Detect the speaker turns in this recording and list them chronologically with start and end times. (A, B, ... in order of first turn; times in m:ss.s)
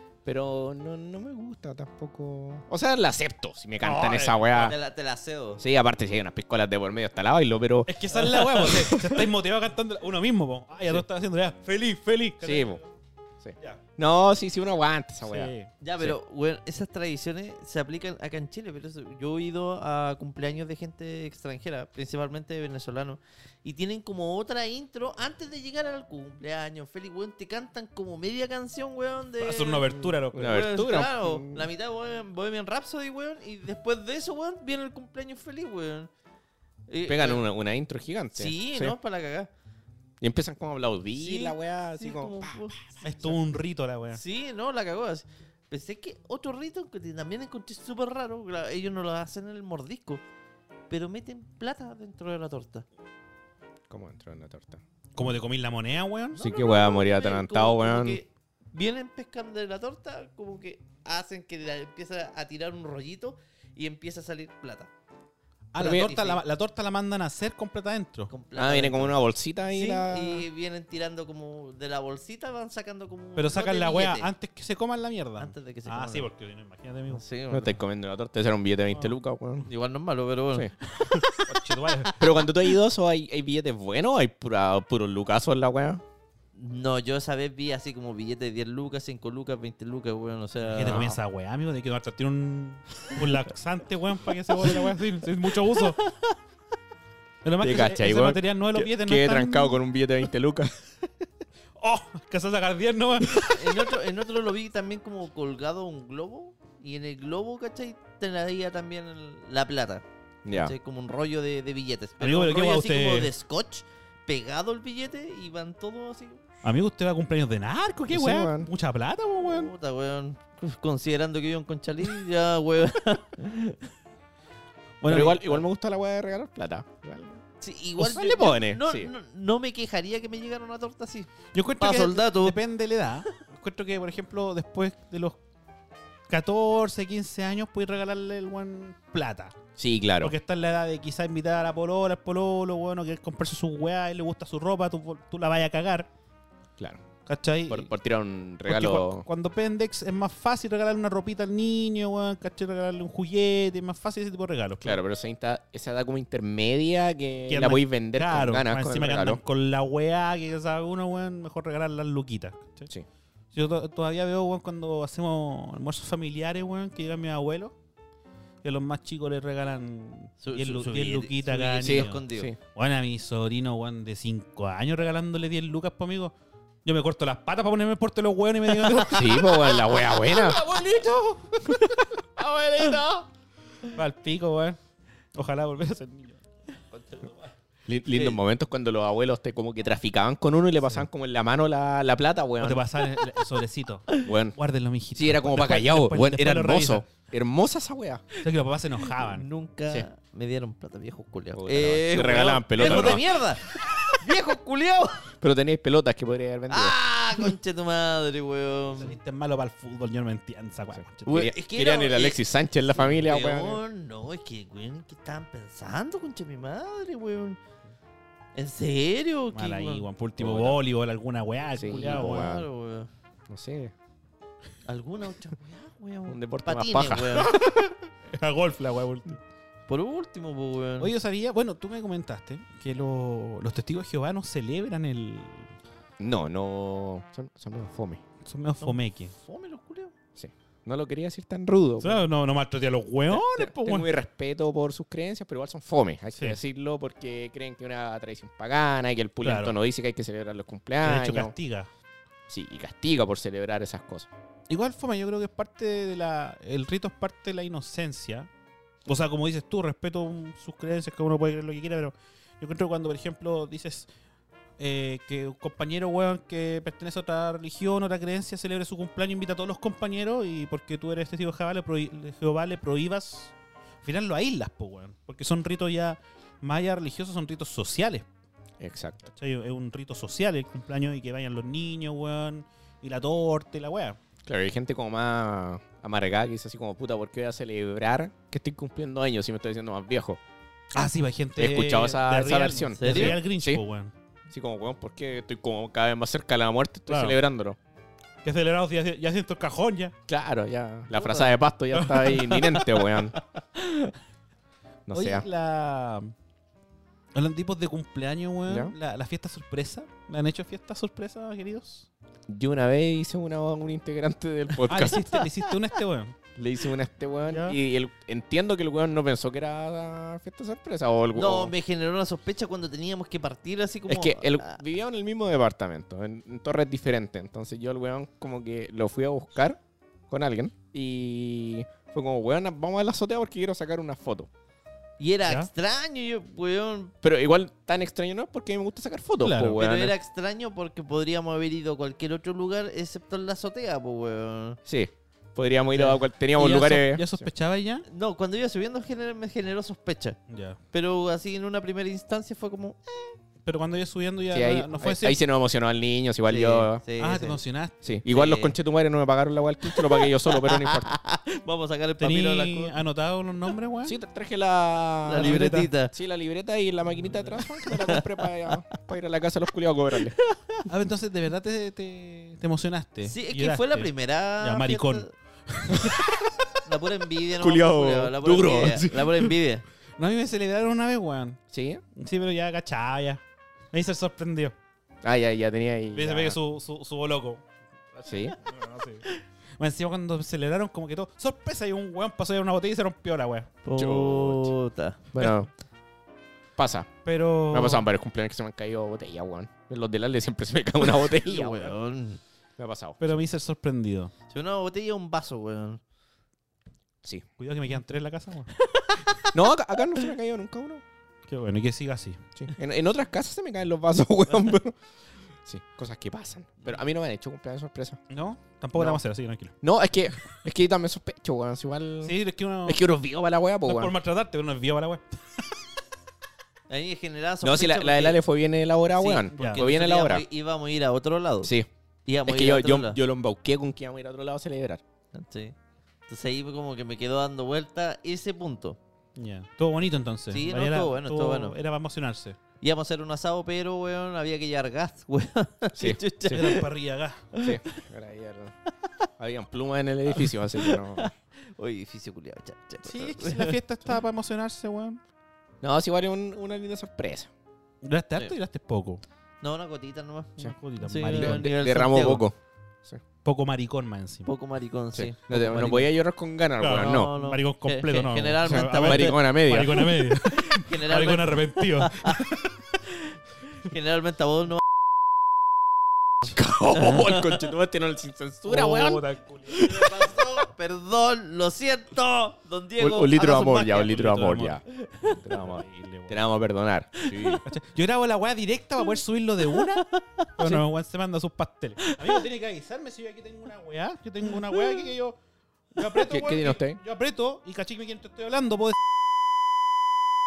0:00.2-0:04.8 A
0:03.8-0:04.7 B
0:04.5-0:05.6 C
0:05.6-0:09.2 A
0:07.9-0:12.9 B
0:12.4-0:12.8 A
0:13.4-0:16.2 A
0:15.2-0:15.7 B
0:15.8-0:36.1 C
0:29.4-0:30.6 B
0:30.3-0:31.7 A
0:36.9-0:37.4 C
0:37.0-0:39.0 A
0:38.3-0:39.5 C
0:40.2-0:42.8 A
0:41.1-0:42.8 C
0:43.0-0:44.2 B
0:44.1-0:50.2 C
0:50.9-0:52.8 C
0:53.9-0:54.8 A
0:55.1-0:56.4 B
0:56.3-1:04.9 C
0:56.4-0:58.2 A
1:05.7-1:08.3 B
1:05.8-1:06.1 A
1:05.8-1:06.4 C
1:08.3-1:14.3 C
1:08.5-1:10.4 A
1:13.4-1:17.2 B
1:15.4-1:16.3 C
1:17.1-1:17.7 C
1:17.5-1:19.7 A
1:19.6-1:22.5 C
1:21.0-1:22.1 B
1:22.2-1:26.0 A
1:26.5-1:31.1 C
1:30.6-1:36.0 B
1:35.8-1:36.3 C
1:37.4-1:39.8 B
1:37.6-1:40.7 A
1:41.8-1:43.8 B
1:43.4-1:56.4 C
1:50.4-1:50.7 A
1:52.2-1:53.3 B
1:56.6-1:59.7 B
1:58.1-1:58.7 A
1:59.4-2:03.8 C
2:05.0-2:05.5 B
2:05.0-2:07.4 A
2:07.6-2:12.6 C
2:08.0-2:09.1 A
2:11.5-2:15.4 B
2:16.3-2:19.5 B
2:19.8-2:20.3 A
2:20.2-2:26.1 B
2:27.2-2:27.9 B
2:27.7-2:29.2 A
2:28.6-2:35.0 B
2:34.8-2:39.4 A
2:37.5-2:42.9 B
2:43.5-2:47.7 B
2:48.6-2:52.2 B
2:50.4-2:52.5 C
2:51.8-2:52.6 A
2:52.7-2:56.3 B
2:56.8-2:59.4 B
2:58.8-3:01.7 C
2:59.0-3:00.6 A
3:02.4-3:03.2 C
3:03.9-3:04.8 B
3:05.3-3:06.4 B
3:07.9-3:12.8 A
3:08.1-3:08.4 C
3:12.6-3:17.0 B
3:14.2-3:14.6 A
3:15.1-3:18.2 A
3:18.4-3:19.4 B
3:19.0-3:25.3 C
3:21.5-3:23.3 A
3:22.8-3:23.1 B
3:25.4-3:27.5 A
3:26.7-3:29.2 C
3:29.0-3:31.4 B
3:30.9-3:33.8 A
3:31.2-3:32.4 C
3:32.9-3:37.6 C
3:38.5-3:40.1 C
3:39.5-3:42.5 B
3:40.4-3:40.8 A
3:41.8-3:42.7 A
3:42.0-3:43.1 C
3:43.5-3:43.9 A
3:44.8-3:47.6 C
3:46.3-3:47.4 A
3:47.4-3:49.4 B
3:49.9-3:51.1 C
3:51.0-3:55.7 B
3:56.2-3:58.2 A
3:58.4-3:59.3 B
3:58.8-4:00.1 C
4:00.4-4:02.2 A
4:02.0-4:04.1 B
4:03.3-4:11.5 A
4:09.4-4:09.7 B
4:11.0-4:11.9 B
4:12.5-4:14.3 A
4:14.7-4:18.5 B
4:19.0-4:24.1 B
4:24.8-4:38.2 B
4:38.8-4:39.2 A
4:39.3-4:44.2 B
4:44.4-4:50.4 A
4:50.9-4:54.1 B
4:51.6-4:53.8 A
4:53.0-4:53.4 C
4:54.5-4:57.8 A
4:57.1-4:57.4 B
4:58.4-5:00.1 B
5:00.3-5:03.4 A
5:01.1-5:01.6 C
5:02.2-5:04.1 C
5:05.1-5:05.4 A
5:05.1-5:06.3 B
5:07.3-5:12.1 B
5:08.7-5:08.9 A
5:12.5-5:15.4 A
5:14.8-5:16.4 B
5:16.6-5:21.7 A
5:17.5-5:17.8 B
5:21.3-5:24.8 C
5:24.1-5:34.5 A
5:35.2-5:37.1 C
5:37.2-5:40.1 A
5:39.4-5:39.8 B
5:39.8-5:44.8 C
5:44.8-5:47.5 A
5:45.9-5:48.0 B
5:48.1-5:50.4 C
5:50.5-5:50.8 B
5:50.9-5:53.4 C
5:53.6-5:55.4 B
5:54.5-5:57.0 A
5:56.4-5:57.6 C
5:57.2-5:58.1 B
5:58.0-6:01.1 A
5:58.3-5:58.8 C
5:59.8-6:03.0 C
6:02.2-6:04.2 B
6:04.0-6:10.4 A
6:05.2-6:06.1 C
6:05.4-6:05.9 B
6:07.8-6:08.8 C
6:10.4-6:10.8 C
6:10.9-6:16.4 B
6:13.2-6:15.3 C
6:16.8-6:19.8 C
6:17.6-6:19.5 A
6:20.2-6:21.6 B
6:21.7-6:22.0 A
6:22.1-6:24.7 B
6:25.2-6:26.6 A
6:26.1-6:27.6 B
6:28.2-6:28.6 A
6:28.6-6:33.7 B
6:33.8-6:35.2 C
6:34.0-6:34.7 A
6:35.3-6:35.7 A
6:36.8-6:37.1 A
6:37.2-6:38.0 B
6:37.7-6:41.9 A
6:41.0-6:42.4 C
6:42.8-6:43.4 A
6:43.2-6:44.3 B
6:44.5-6:46.0 C
6:47.6-6:48.7 B
6:48.7-6:49.5 C
6:49.5-6:51.0 A
6:51.5-6:52.4 B
6:52.6-6:55.0 A
6:55.6-6:58.2 A
6:58.3-6:59.7 B
6:59.0-6:59.2 A
6:59.8-7:04.1 A
7:02.2-7:03.0 B
7:03.8-7:05.7 B
7:06.9-7:08.4 C
7:07.6-7:10.4 A
7:09.1-7:11.7 C
7:09.5-7:09.8 B
7:11.6-7:11.9 A
7:12.2-7:13.2 C
7:12.4-7:15.0 A
7:15.3-7:15.7 C
7:16.3-7:19.0 C
7:19.4-7:22.6 B
7:20.5-7:21.8 C
7:22.8-7:26.9 C
7:25.9-7:26.8 A
7:26.5-7:27.5 B
7:27.5-7:28.0 C
7:27.6-7:28.7 A
7:29.4-7:31.3 A
7:30.4-7:33.8 C
7:33.0-7:35.2 B
7:35.8-7:37.5 A
7:38.0-7:39.2 B
7:39.6-7:42.4 C
7:40.6-7:41.7 B
7:41.3-7:43.2 A
7:43.4-7:44.5 B
7:44.4-7:46.1 C
7:45.1-7:47.3 A
7:46.8-7:52.8 B
7:46.9-7:49.4 C
7:48.6-7:50.2 A
7:50.4-7:52.4 C
7:53.7-7:54.8 C
7:56.4-8:00.1 A
7:57.0-7:57.6 C
7:58.6-7:59.9 B
7:59.8-8:04.3 C
8:03.0-8:07.6 A
8:04.0-8:04.8 B
8:04.9-8:05.4 C
8:05.5-8:06.4 B
8:07.2-8:07.6 C
8:07.6-8:15.4 B
8:09.8-8:10.7 C
8:12.1-8:12.4 C
8:14.7-8:15.0 C
8:15.9-8:19.0 B
8:16.1-8:17.0 A